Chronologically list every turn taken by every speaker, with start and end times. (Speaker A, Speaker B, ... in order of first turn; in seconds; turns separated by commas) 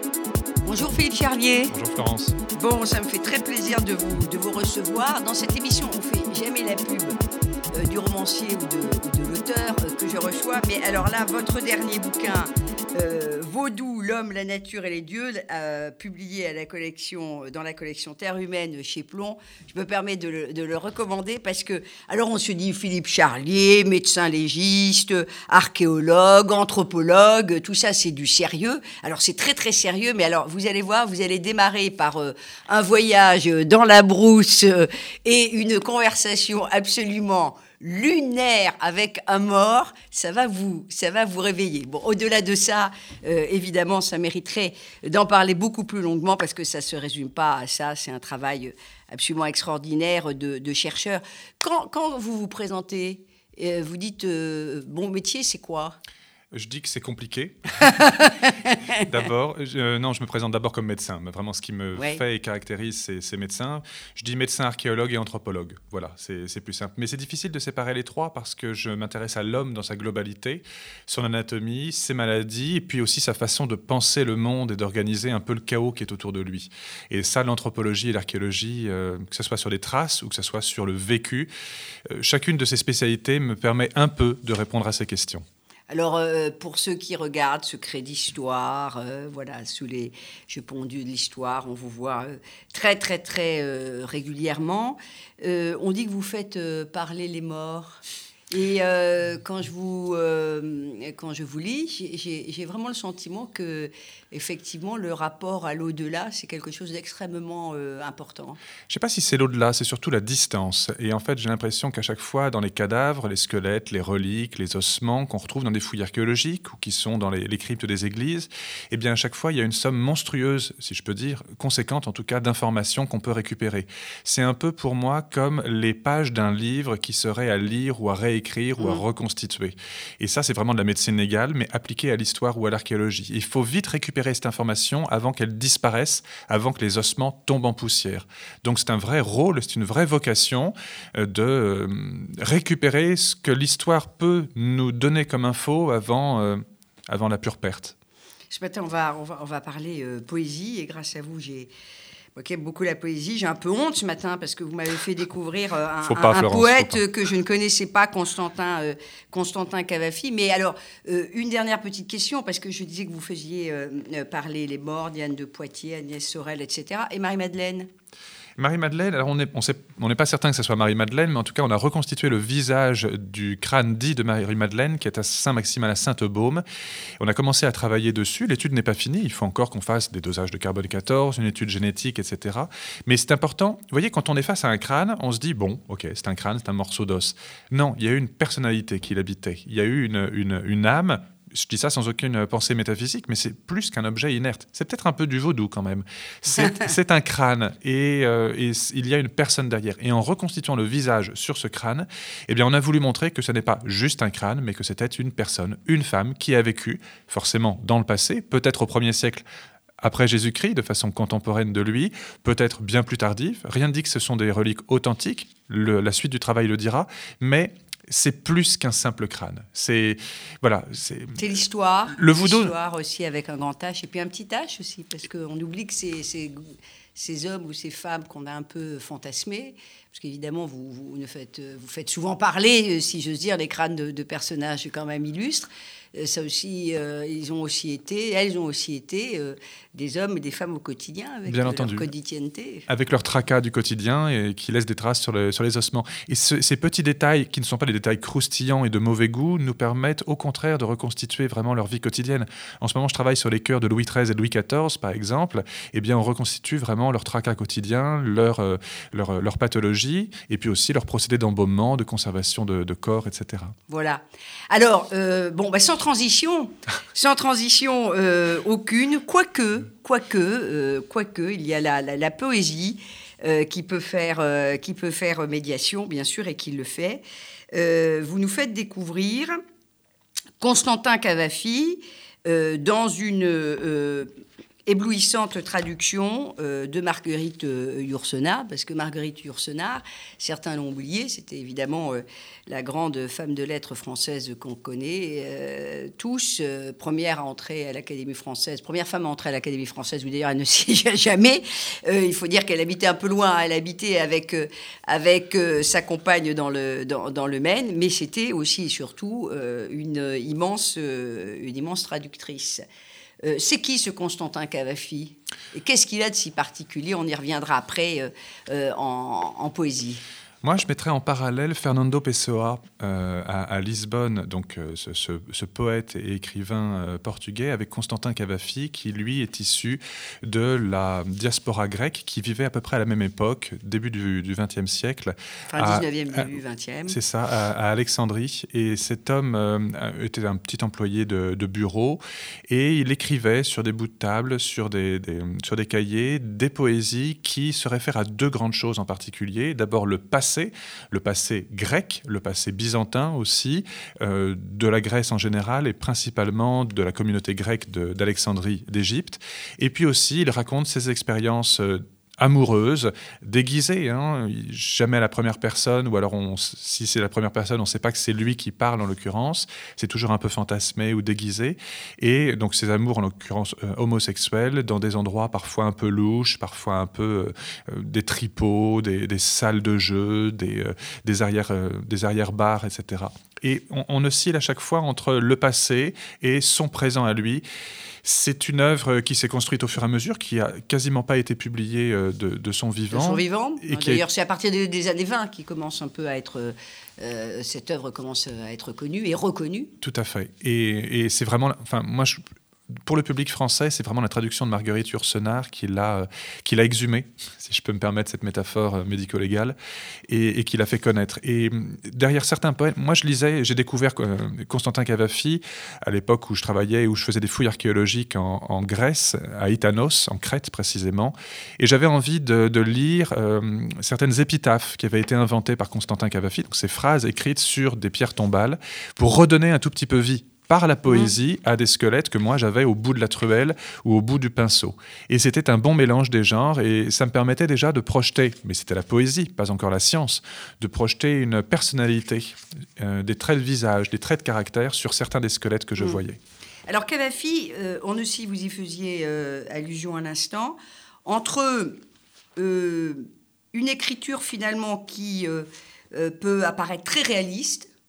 Speaker A: 0.7-1.7, Speaker B: 1.7-2.4, Speaker A: 2.5-7.2, Speaker A: 7.7-56.0, Speaker B: 56.5-58.1, Speaker A: 58.0-59.0, Speaker B: 59.0-81.5, Speaker A: 62.0-62.2, Speaker B: 82.1-85.4, Speaker A: 85.9-98.0, Speaker A: 98.5-108.6, Speaker B: 108.9-147.9, Speaker A: 128.8-129.0, Speaker A: 148.5-151.7, Speaker A: 152.3-167.9, Speaker B: 156.1-157.0, Speaker B: 168.6-176.6, Speaker B: 177.2-209.4, Speaker B: 210.0-221.6, Speaker A: 221.4-226.6, Speaker B: 222.2-222.7, Speaker A: 227.2-242.9, Speaker B: 241.5-242.1, Speaker B: 242.9-263.7, Speaker A: 263.9-277.2, Speaker A: 277.7-279.5, Speaker A: 280.6-284.3, Speaker A: 284.9-312.8, Speaker A: 313.4-320.2, Speaker B: 320.6-336.5, Speaker A: 335.7-337.2, Speaker B: 337.1-387.6, Speaker B: 388.2-394.2, Speaker A: 393.1-399.9, Speaker B: 400.0-402.4, Speaker B: 403.1-409.8, Speaker B: 410.3-446.4, Speaker A: 431.1-431.4, Speaker A: 446.9-452.0, Speaker A: 452.6-457.9